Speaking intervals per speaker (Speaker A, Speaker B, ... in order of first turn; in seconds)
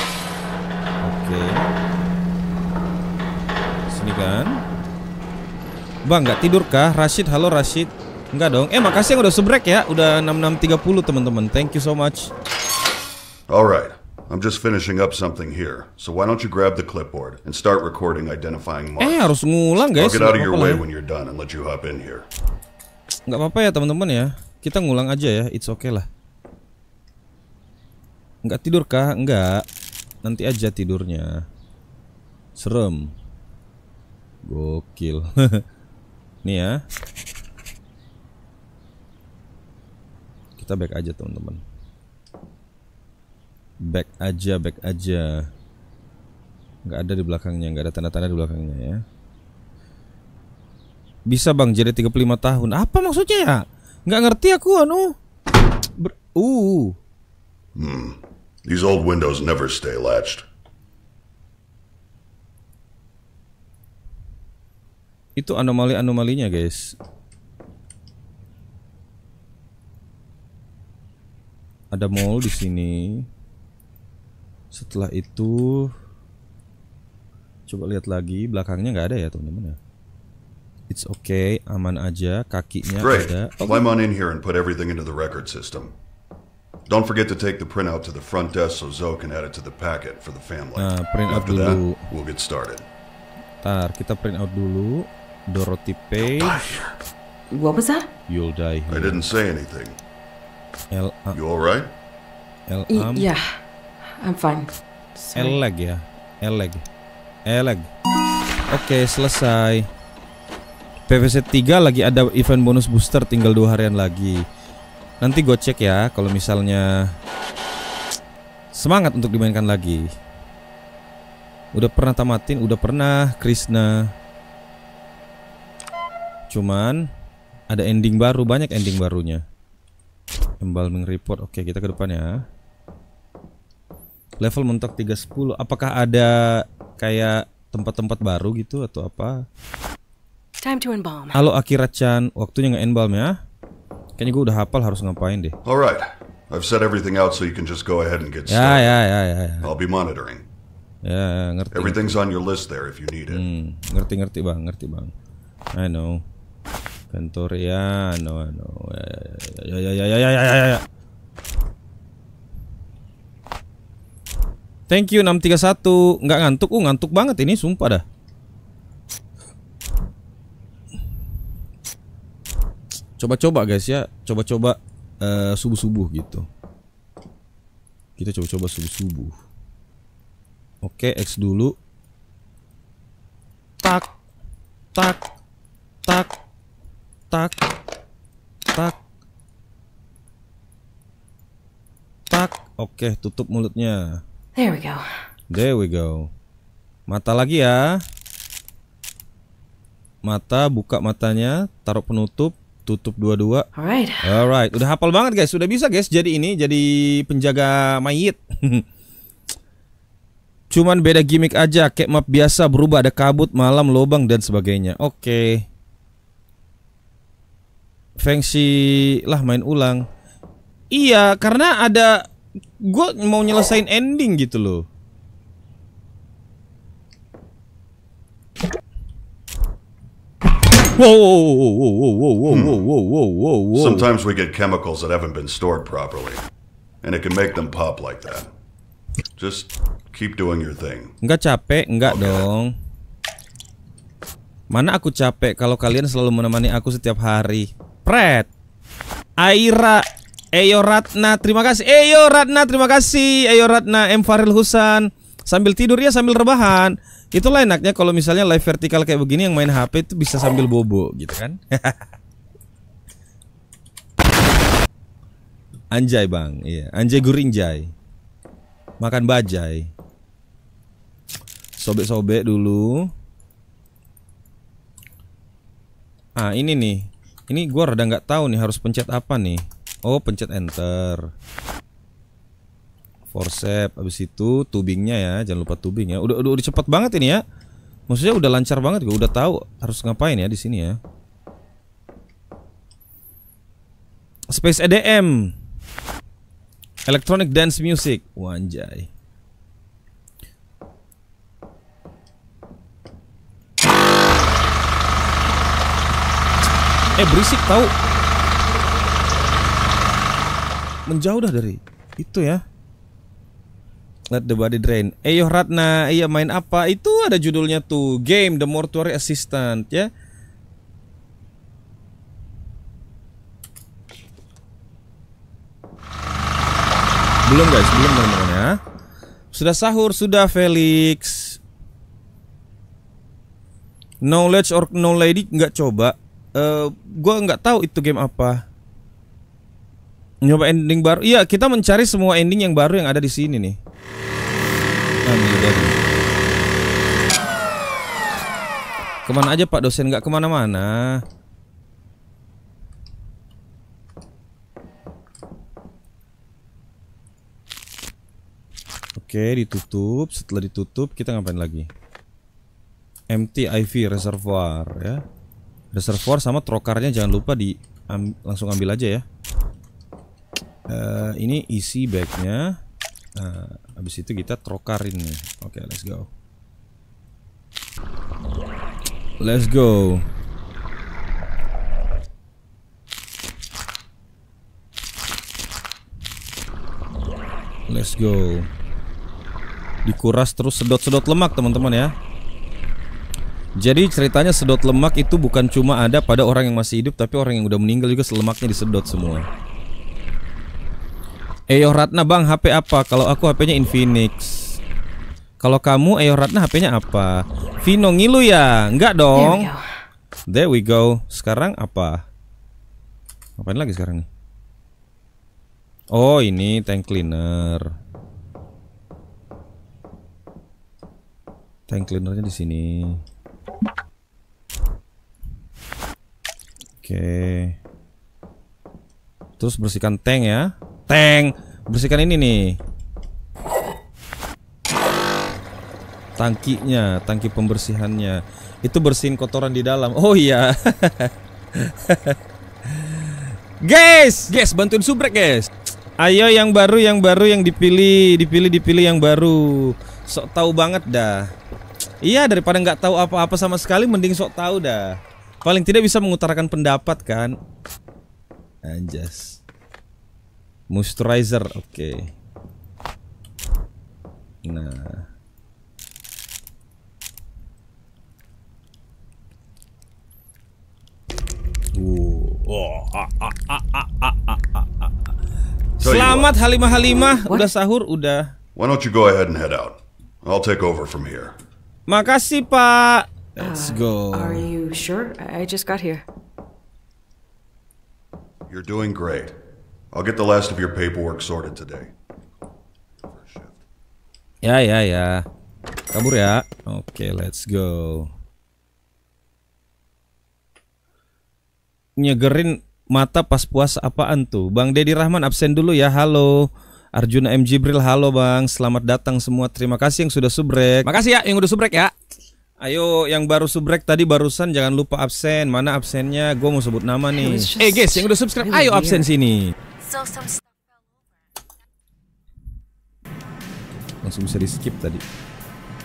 Speaker A: 1.0-1.7, 3.9-4.6, 6.1-12.3, 19.0-20.8, 23.3-26.1, 28.4-29.6, 30.2-31.4, 32.6-33.1, 34.4-35.6, 36.4-36.8, 40.6-41.6, 43.8-45.5, 46.8-49.0, 51.3-55.1, 56.0-57.0, 65.4-66.9, 71.9-73.2, 74.7-75.9, 77.7-79.8, 80.9-83.8, 90.8-92.1, 93.6-96.7, 98.3-99.3, 100.9-101.4, 102.7-103.3, 105.3-106.8, 107.5-107.9, 108.7-109.9, 111.1-114.4, 115.2-117.1, 118.7-120.1, 121.7-124.1, 126.5-127.1, 127.7-129.4, 130.6-132.4, 134.4-139.4, 141.3-143.4, 144.2-145.6, 148.5-149.7, 151.0-152.2, 153.3-155.1, 155.7-156.2, 157.1-160.8, 164.9-168.0, 173.2-176.5, 178.2-179.4, 180.8-181.7, 183.8-184.1, 184.9-185.2, 186.1-186.3, 187.3-187.6, 192.3-194.2, 195.5-196.3, 197.1-198.0, 200.2-203.7, 204.2-208.8, 210.7-215.7, 218.2-220.0, 220.9-222.2, 222.8-224.8, 230.9-234.1, 241.2-242.7, 244.7-248.5, 249.4-262.1, 265.9-267.9, 269.0-269.9, 271.8-273.1, 276.4-281.3, 283.3-287.4, 288.1-291.0, 294.5-295.5, 297.1-299.1, 307.2-307.9, 311.1-312.6, 314.3-320.1, 327.4-328.8, 329.5-331.6, 334.2-338.6, 340.4-343.8, 345.2-346.0, 349.2-351.2, 359.1-361.9, 363.3-365.2, 365.9-369.2, 370.9-372.7, 373.4-376.3, 379.4-380.2, 387.9-388.7, 390.0-392.1, 393.8-399.4, 401.7-404.8, 405.6-409.7, 410.5-412.2, 413.6-414.3, 416.1-417.9, 421.9-423.2, 427.0-427.8, 429.6-432.8, 436.4-442.4, 442.9-451.5, 452.2-457.5, 458.8-459.6, 460.9-462.3, 464.6-465.3, 471.9-475.1, 476.0-478.5, 482.1-484.7, 494.6-495.4, 496.1-498.3, 502.2-512.1, 512.8-519.7, 524.2-525.2
Speaker B: 13.5-19.3, 19.9-22.3, 57.7-60.4, 83.0-85.9, 86.9-92.8, 96.4-96.8, 98.9-100.0, 101.3-101.9, 145.6-148.9, 149.6-150.5, 151.7-153.4, 232.5-232.8, 233.7-236.4, 237.0-238.5, 239.4-241.1, 242.0-242.5, 476.0-476.5, 478.8-481.6, 488.7-489.6, 490.1-492.1, 493.2-493.8
Speaker C: 97.5-98.1, 102.9-103.6, 104.2-105.6, 140.6-141.4, 194.5-195.2, 203.7-204.2, 409.3-409.9, 483.6-486.2, 517.3-519.3, 520.2-520.5